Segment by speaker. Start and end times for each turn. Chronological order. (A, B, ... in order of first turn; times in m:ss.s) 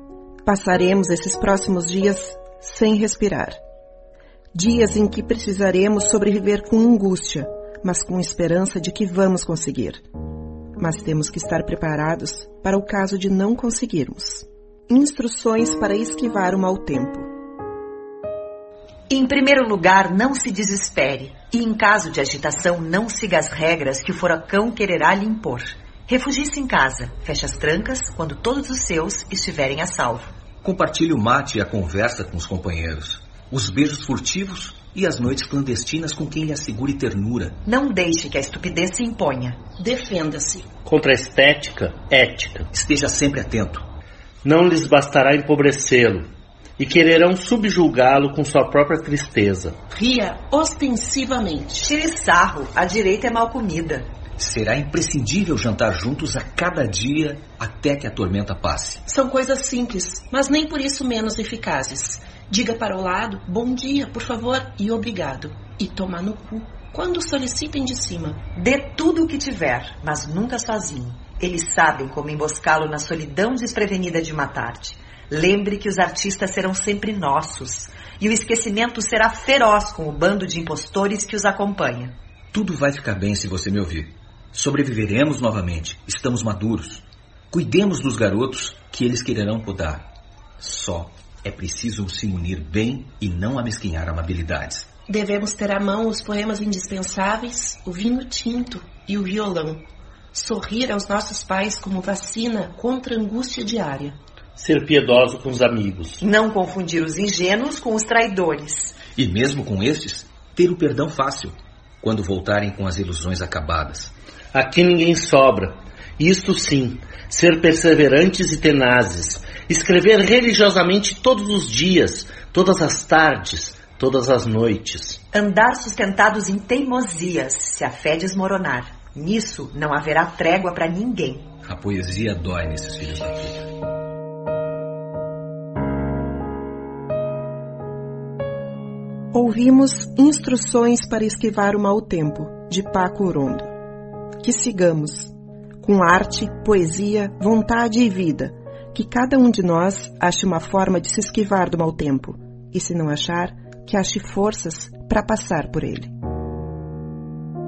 0:00.4-0:03.6 A
0:04.5-0:10.0 A
0:10.8-0:17.3 A
0:19.1-0:30.3 B
0:30.6-0:37.6 C
0:37.7-0:39.6 B
0:39.8-0:40.7 D
0:40.4-0:42.7 E
0:42.7-0:43.8 C
0:44.4-0:46.3 E
0:46.8-0:49.9 E
0:49.9-0:51.8 D
0:51.8-0:54.1 B
0:54.4-0:59.0 C
0:59.1-1:08.4 D
1:08.6-1:22.1 B
1:22.5-1:34.9 C
1:35.1-1:39.8 D
1:40.3-1:44.2 D
1:44.6-1:46.2 E
1:46.2-1:49.0 B
1:49.2-1:54.1 C
1:54.5-2:05.2 E
2:05.3-2:11.5 B
2:11.6-2:13.7 C
2:19.3-2:23.7 A
2:24.4-2:36.1 A